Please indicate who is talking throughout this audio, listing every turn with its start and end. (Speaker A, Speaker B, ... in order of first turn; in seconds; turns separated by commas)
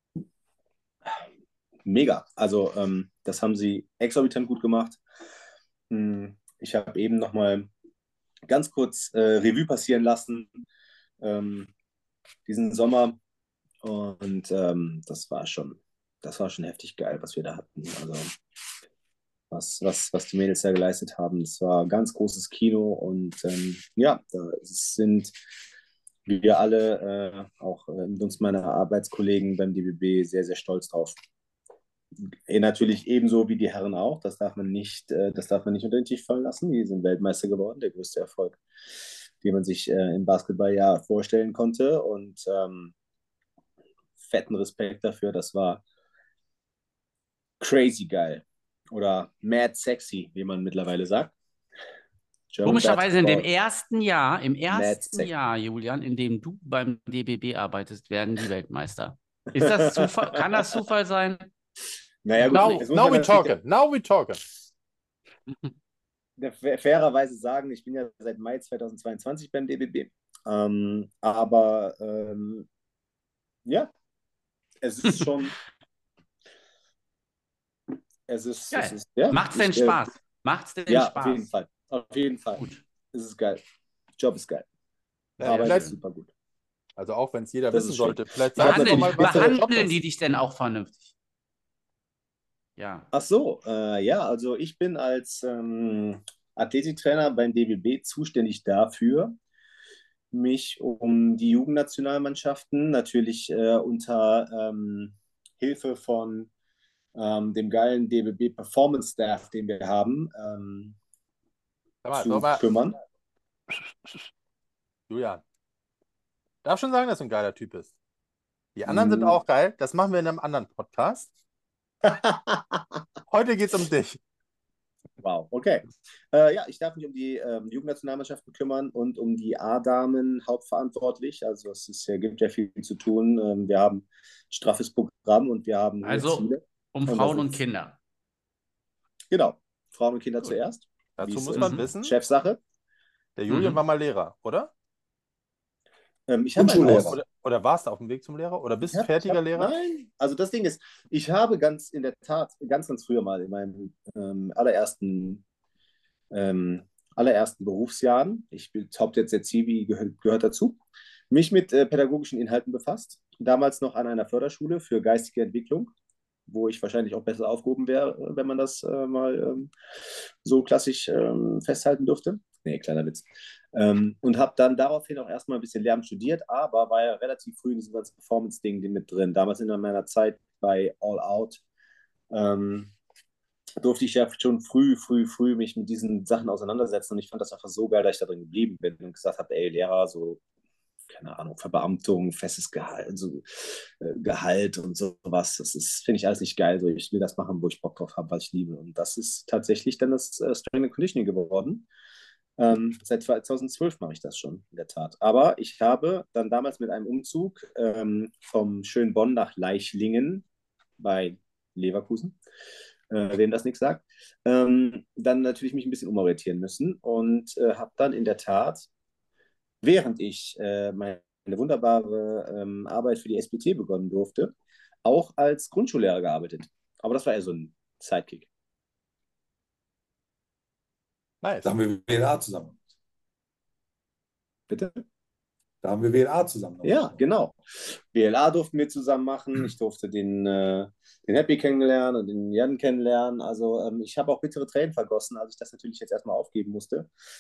Speaker A: 1.9-5.0, Speaker A: 5.9-7.7, Speaker A: 8.5-10.5, Speaker A: 11.2-11.7, Speaker A: 12.5-13.2, Speaker A: 13.8-18.3, Speaker A: 19.5-25.3, Speaker A: 26.3-31.2, Speaker A: 32.5-38.6, Speaker A: 39.4-42.9, Speaker A: 44.2-45.8, Speaker A: 47.6-51.3, Speaker A: 52.5-53.5, Speaker B: 52.6-61.5, Speaker A: 54.7-55.3, Speaker A: 59.6-60.7, Speaker A: 62.2-63.6, Speaker B: 62.4-62.8, Speaker C: 62.5-64.4, Speaker A: 66.4-72.7, Speaker A: 74.8-75.6, Speaker B: 75.1-75.3, Speaker A: 78.3-80.0, Speaker B: 78.7-81.5, Speaker A: 80.9-83.6, Speaker B: 82.6-82.8, Speaker A: 84.2-84.7, Speaker C: 85.4-85.9, Speaker A: 85.4-86.3, Speaker B: 85.4-86.0, Speaker C: 87.0-90.0, Speaker A: 87.7-89.7, Speaker B: 88.6-91.1, Speaker B: 92.8-93.1, Speaker A: 93.1-99.4, Speaker A: 100.3-106.5, Speaker A: 107.2-111.0, Speaker C: 112.0-112.7, Speaker A: 112.2-113.0, Speaker C: 113.7-114.3, Speaker C: 115.1-115.4, Speaker C: 116.6-117.9, Speaker C: 118.8-121.3, Speaker A: 118.9-119.4, Speaker A: 122.0-123.0, Speaker C: 123.3-124.2, Speaker A: 125.2-137.6, Speaker B: 136.0-138.0, Speaker A: 139.3-142.6, Speaker C: 141.2-142.2, Speaker B: 141.6-141.9, Speaker C: 143.4-144.7, Speaker B: 143.5-143.8, Speaker A: 146.3-147.2, Speaker D: 146.6-147.2, Speaker C: 146.9-149.7, Speaker A: 148.9-155.4, Speaker A: 156.3-160.8, Speaker A: 161.3-165.9, Speaker A: 166.5-169.7, Speaker A: 170.4-181.6, Speaker A: 182.3-182.9, Speaker A: 183.8-190.4, Speaker A: 191.1-201.9, Speaker A: 202.6-210.5, Speaker A: 211.0-212.4, Speaker A: 213.1-218.9, Speaker A: 219.8-224.5, Speaker A: 225.1-228.5, Speaker C: 231.4-231.8, Speaker D: 231.6-232.8, Speaker A: 234.7-235.0, Speaker D: 235.8-237.2, Speaker A: 236.8-247.1